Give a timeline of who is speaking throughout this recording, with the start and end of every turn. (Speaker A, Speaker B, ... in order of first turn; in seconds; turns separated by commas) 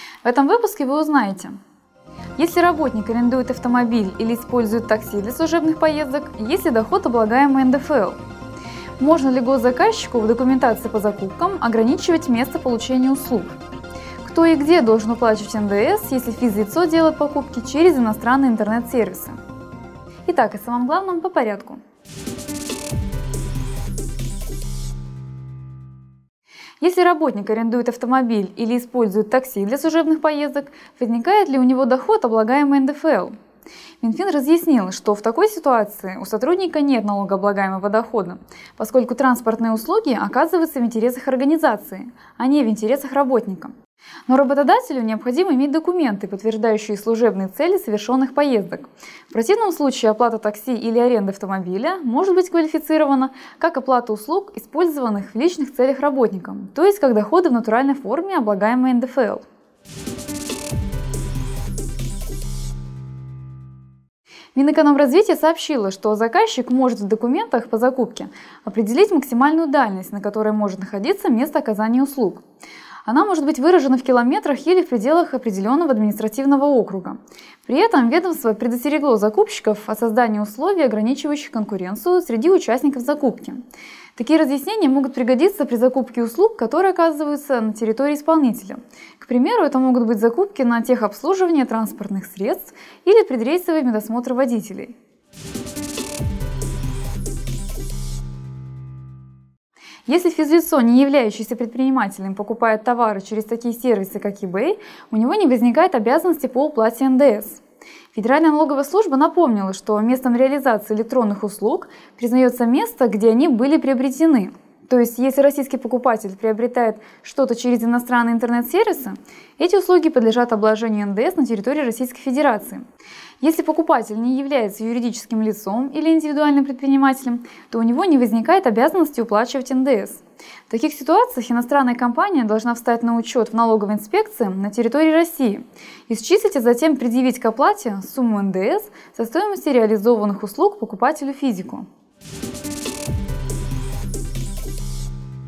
Speaker A: 0.2-1.6, Speaker A: 2.4-8.2, Speaker A: 9.0-13.6, Speaker A: 14.2-19.4, Speaker A: 20.3-21.8, Speaker A: 26.8-33.4, Speaker A: 34.0-43.8, Speaker A: 44.3-59.4, Speaker A: 64.5-72.4, Speaker A: 73.1-83.6, Speaker A: 84.2-95.0, Speaker A: 100.1-107.6, Speaker A: 108.1-122.8, Speaker A: 123.4-141.9